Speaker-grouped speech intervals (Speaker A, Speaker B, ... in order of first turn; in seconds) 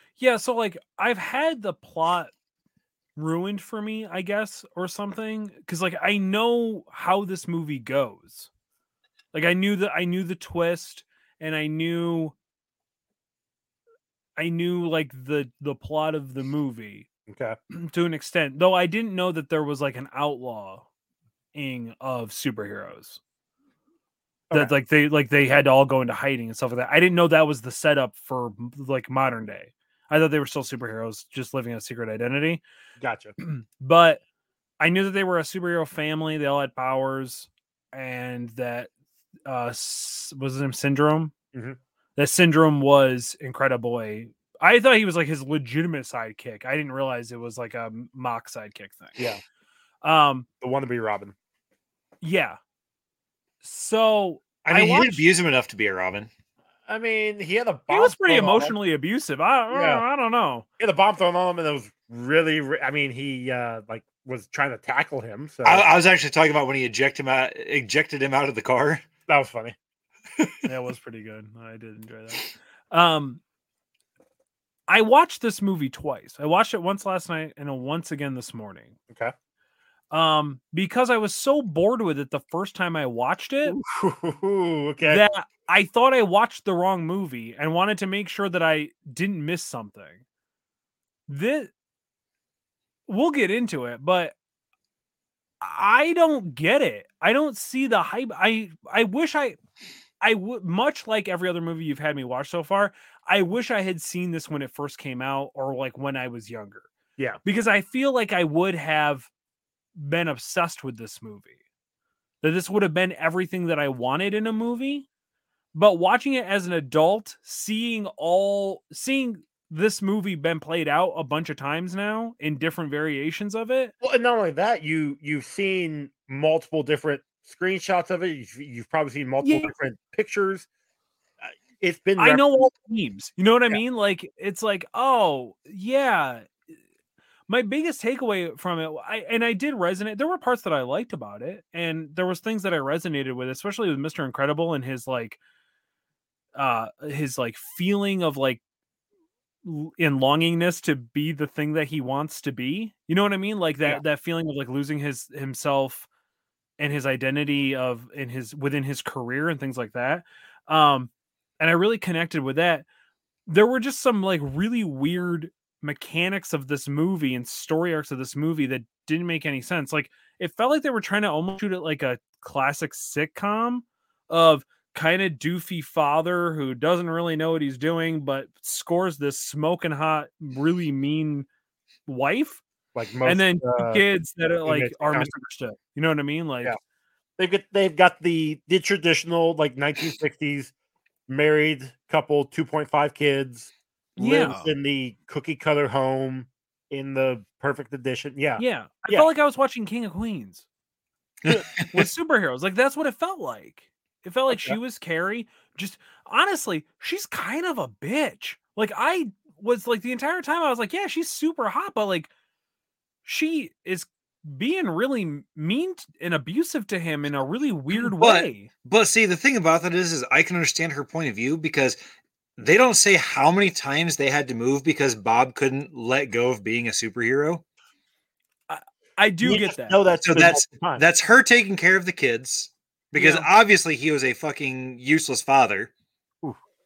Speaker A: 0.2-2.3, 3.2-8.5, 9.3-12.3, 14.4-17.1, 17.7-20.9, 21.5-23.2, 24.5-32.6, 33.4-34.2, 34.8-38.9, 39.5-41.3, 42.2-49.2, 50.0-50.5, 52.2-52.6, 53.6-55.3, 57.9-60.7, 70.7-73.4, 74.9-79.0, 80.1-83.8, 85.0-90.2, 91.3-91.7, 93.1-94.3, 95.6-99.6, 100.2-106.9, 107.5-109.3, 110.0-111.6, 112.4-115.1, 115.7-123.9, 129.4-129.7, 132.2-136.6, 137.5-145.4, 146.6-148.6, 149.6-156.1, 156.8-162.8, 163.5-181.5, 182.1-182.6, 183.2-186.8, 194.2-194.7, 198.6-200.7, 201.8-212.3, 213.2-218.7, 228.7-230.0, 233.2-233.5
Speaker B: 17.3-17.6, 33.0-33.4, 41.5-41.8, 50.6-51.4, 56.9-58.8, 59.7-60.0, 60.8-65.9, 69.3-69.8, 83.7-85.2, 124.0-130.7, 131.4-132.7, 182.9-184.1, 184.7-185.3, 187.4-190.7, 191.3-199.3, 204.5-204.8, 229.4-231.1
Speaker C: 54.7-56.3, 65.7-69.0, 201.4-201.8, 217.9-222.0, 222.6-227.6, 230.3-235.9